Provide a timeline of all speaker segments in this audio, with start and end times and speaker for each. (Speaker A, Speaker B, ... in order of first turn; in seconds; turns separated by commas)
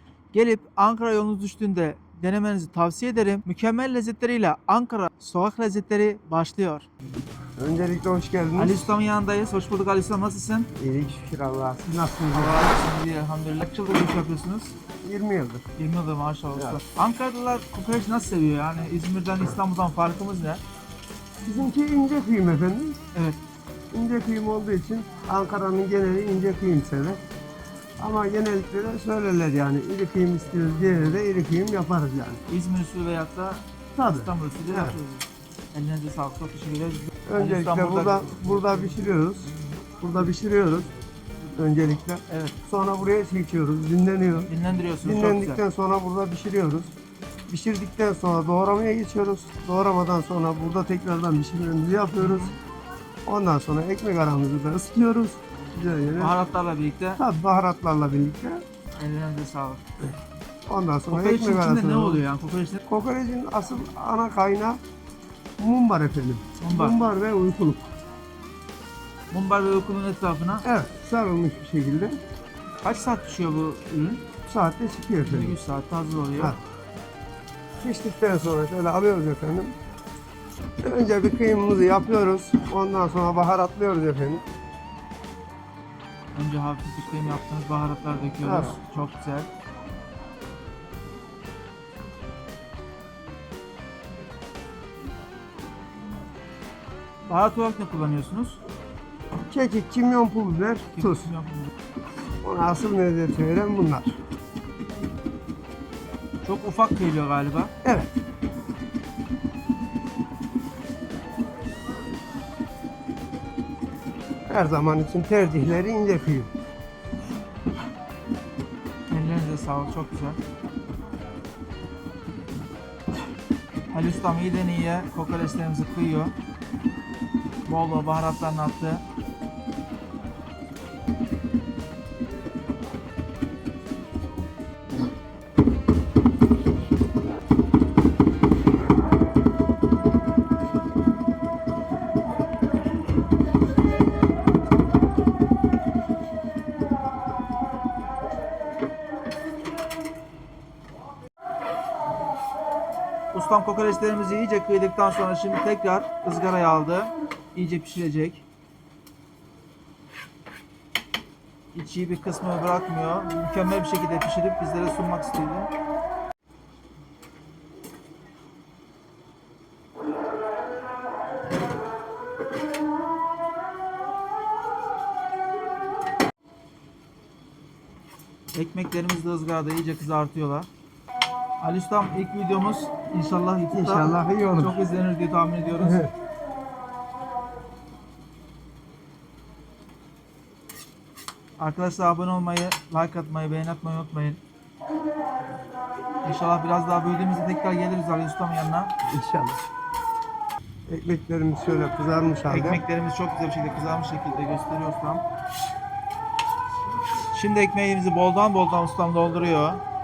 Speaker A: 0.3-6.9, Speaker B: 7.6-8.8, Speaker A: 8.6-10.7, Speaker B: 10.8-12.8, Speaker A: 12.3-14.7, Speaker B: 15.0-15.7, Speaker A: 15.8-20.6, Speaker B: 21.4-23.0, Speaker A: 23.1-23.4, Speaker B: 23.9-27.2, Speaker B: 28.0-32.4, Speaker A: 32.5-38.5, Speaker B: 34.0-35.0, Speaker B: 37.3-40.9, Speaker B: 41.5-44.5, Speaker A: 42.3-42.6, Speaker A: 44.5-45.6, Speaker B: 45.0-47.0, Speaker B: 47.5-52.5, Speaker A: 52.2-52.5, Speaker B: 53.3-56.4, Speaker A: 56.2-57.2, Speaker B: 57.2-58.6, Speaker A: 59.0-59.8, Speaker B: 60.7-62.2, Speaker A: 61.1-62.8, Speaker B: 62.9-64.8, Speaker B: 65.6-67.9, Speaker A: 66.6-67.0, Speaker A: 69.3-70.7, Speaker B: 70.6-72.2, Speaker A: 72.8-74.2, Speaker B: 74.5-75.6, Speaker A: 75.2-76.6, Speaker B: 77.8-79.8, Speaker B: 80.8-84.4, Speaker A: 86.3-89.5, Speaker B: 88.4-88.8, Speaker A: 97.3-98.6, Speaker B: 99.5-101.3, Speaker A: 100.9-101.7, Speaker B: 102.4-104.2, Speaker A: 106.4-107.7, Speaker B: 107.8-108.1, Speaker B: 114.5-116.5, Speaker A: 119.1-120.4, Speaker A: 123.9-126.3, Speaker A: 127.7-129.0, Speaker A: 153.3-158.4, Speaker A: 161.7-165.7, Speaker A: 178.5-180.7, Speaker A: 181.6-186.1, Speaker B: 183.7-184.8, Speaker B: 185.8-186.1, Speaker A: 191.6-194.4, Speaker A: 196.2-198.9, Speaker B: 199.1-199.6, Speaker B: 200.9-202.8, Speaker A: 202.5-205.2, Speaker A: 207.3-209.8